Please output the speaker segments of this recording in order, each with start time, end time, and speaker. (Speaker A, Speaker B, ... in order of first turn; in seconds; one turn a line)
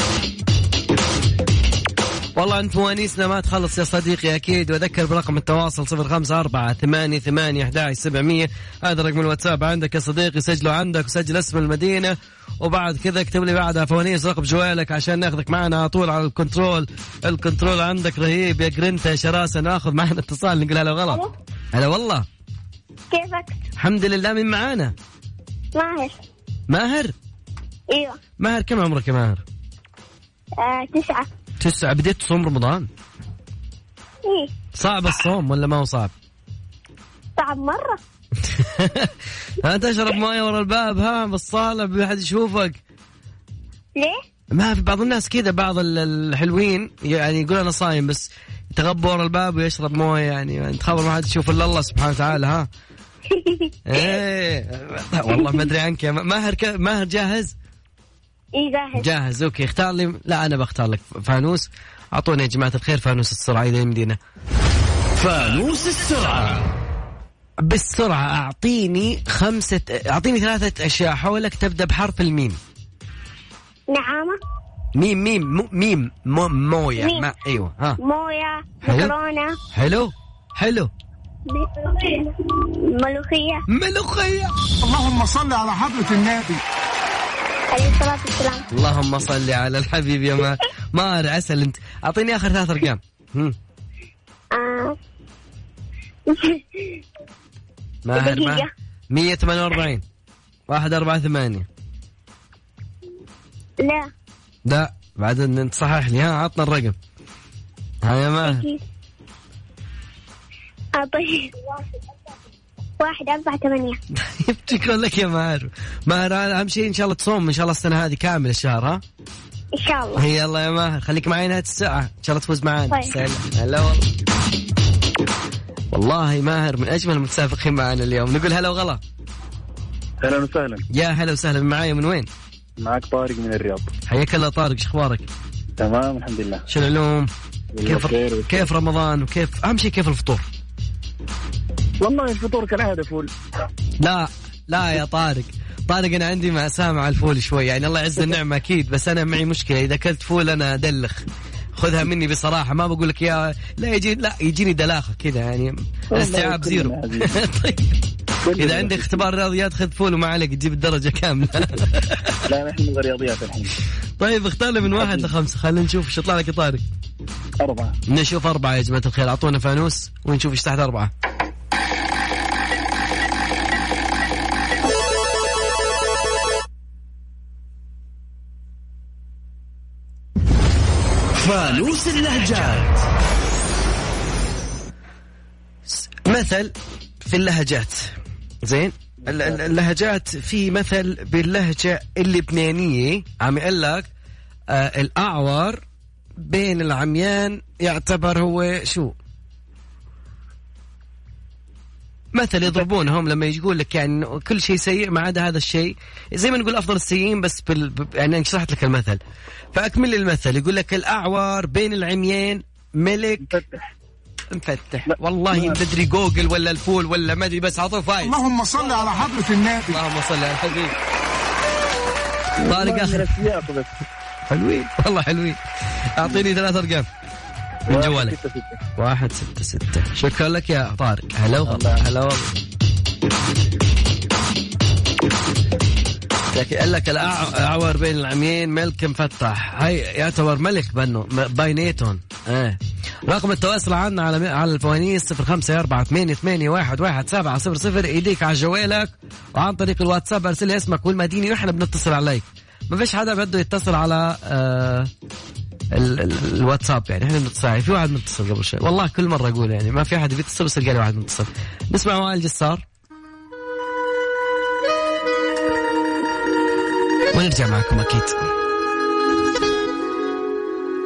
Speaker A: 2.4-21.2
Speaker A: 21.8-22.3
Speaker B: 23.1-23.6
Speaker A: 23.8-24.9
Speaker B: 25.8-26.2
Speaker A: 26.7-27.1
Speaker B: 27.9-28.2
Speaker A: 28.4-29.4
Speaker B: 30.6-31.3
Speaker A: 31.6-32.9
Speaker B: 34.2-34.5
Speaker A: 34.7-36.1
Speaker B: 37.4-38.0
Speaker A: 38.4-42.8
Speaker A: 44.5-52.7
Speaker B: 53.3-54.2
Speaker A: 53.9-57.5
Speaker B: 58.5-59.1
Speaker A: 58.9-64.2
Speaker C: 65.2-66.7
Speaker A: 67.6-72.6
Speaker B: 73.9-74.4
Speaker A: 75.0-78.0
Speaker B: 77.0-77.3
Speaker B: 78.0-79.6
Speaker A: 78.8-79.1
Speaker A: 79.7-80.9
Speaker B: 81.5-83.7
Speaker A: 83.7-84.5
Speaker D: 84.8-86.6
Speaker B: 87.7-88.7
Speaker A: 88.7-93.6
Speaker B: 94.5-95.0
Speaker B: 96.3-97.0
Speaker A: 98.0-100.0
Speaker B: 98.1-98.7
Speaker A: 100.7-101.7
Speaker B: 103.8-104.1
Speaker A: 104.7-107.0
Speaker A: 108.0-108.7
Speaker B: 108.4-108.8
Speaker B: 111.0-111.6
Speaker B: 113.0-114.0
Speaker A: 114.1-119.0
Speaker B: 119.8-120.3
Speaker A: 120.2-124.1
Speaker B: 122.9-123.2
Speaker A: 125.9-129.0
Speaker E: 130.2-130.8
Speaker A: 130.9-132.3
Speaker E: 132.8-133.9
Speaker A: 134.1-135.3
Speaker E: 135.8-136.6
Speaker A: 136.7-137.3
Speaker E: 137.7-138.7
Speaker A: 137.8-140.4
Speaker E: 142.0-143.3
Speaker A: 144.0-151.2
Speaker A: 151.8-158.0
Speaker E: 156.1-157.4
Speaker E: 158.4-159.2
Speaker A: 158.6-162.4
Speaker E: 162.4-163.7
Speaker A: 164.2-166.8
Speaker E: 164.9-165.3
Speaker E: 167.6-167.9
Speaker A: 168.1-171.1
Speaker C: 181.3-183.1
Speaker A: 185.9-194.1
Speaker A: 194.7-195.8
Speaker A: 196.4-199.2
Speaker A: 202.3-209.2
Speaker A: 209.7-213.6
Speaker E: 213.5-213.8
Speaker A: 214.5-218.4
Speaker D: 218.2-220.0
Speaker A: 219.9-221.0
Speaker A: 222.6-223.4
Speaker E: 222.7-223.9
Speaker A: 224.5-227.1
Speaker A: 227.9-228.3
Speaker E: 227.9-228.8
Speaker A: 229.0-232.5
Speaker E: 231.6-232.1
Speaker A: 236.5-255.1
Speaker A: 255.9-262.9
Speaker A: 267.3-268.4